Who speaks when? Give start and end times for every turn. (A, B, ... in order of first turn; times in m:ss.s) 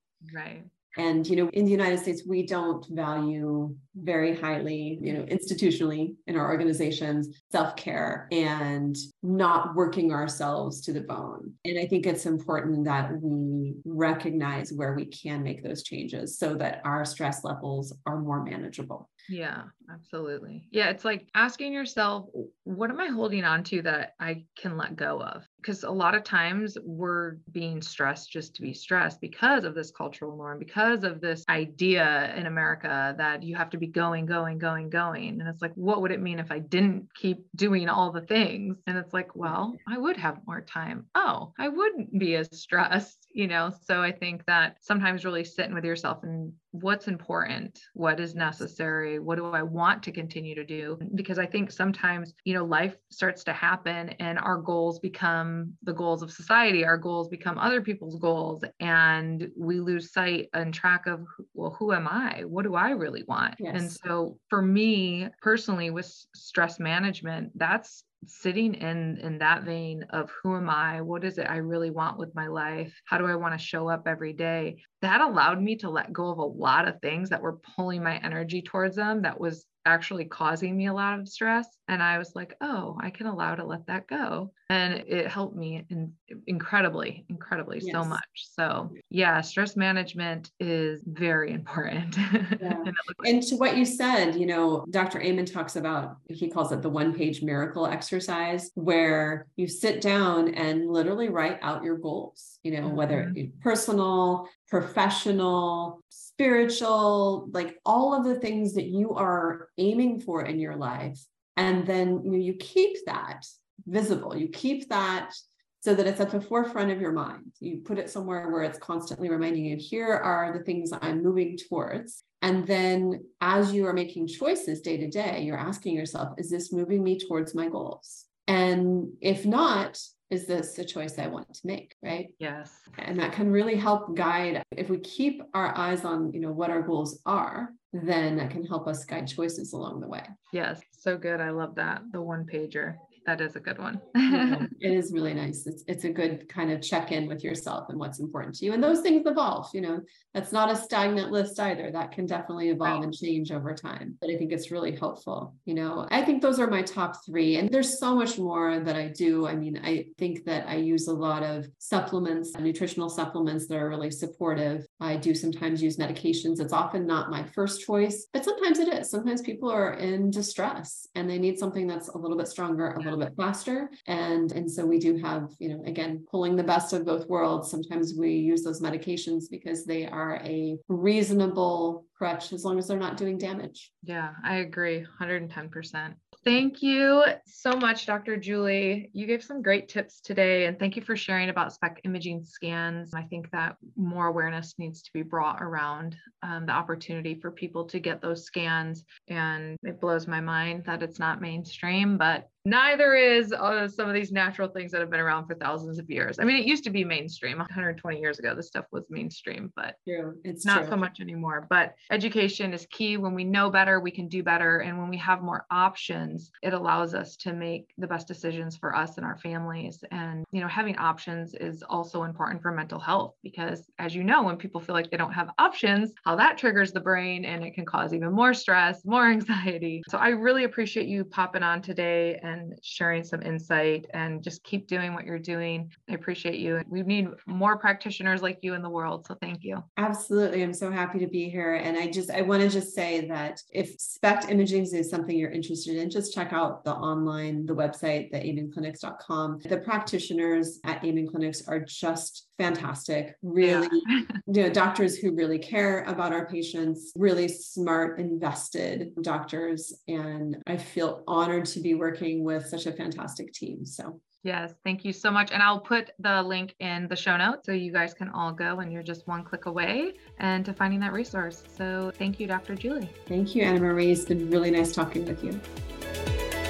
0:00.2-0:00.7 A
0:01.0-0:19.1 B
0:19.3-1:33.3 A
0:39.4-0:39.8 B
1:03.6-1:04.0 B
1:27.8-1:28.2 B
1:32.6-2:12.3 B
1:42.8-1:43.4 A
2:12.4-2:13.0 A
2:13.0-2:20.3 B
2:20.5-2:24.7 A
2:24.3-3:03.9 B
3:04.0-3:30.0 A
3:30.1-3:31.0 B
3:30.6-3:59.9 A
4:00.0-4:24.2 B
4:13.6-4:14.4 A
4:24.4-4:33.1 A
4:33.3-4:35.6 B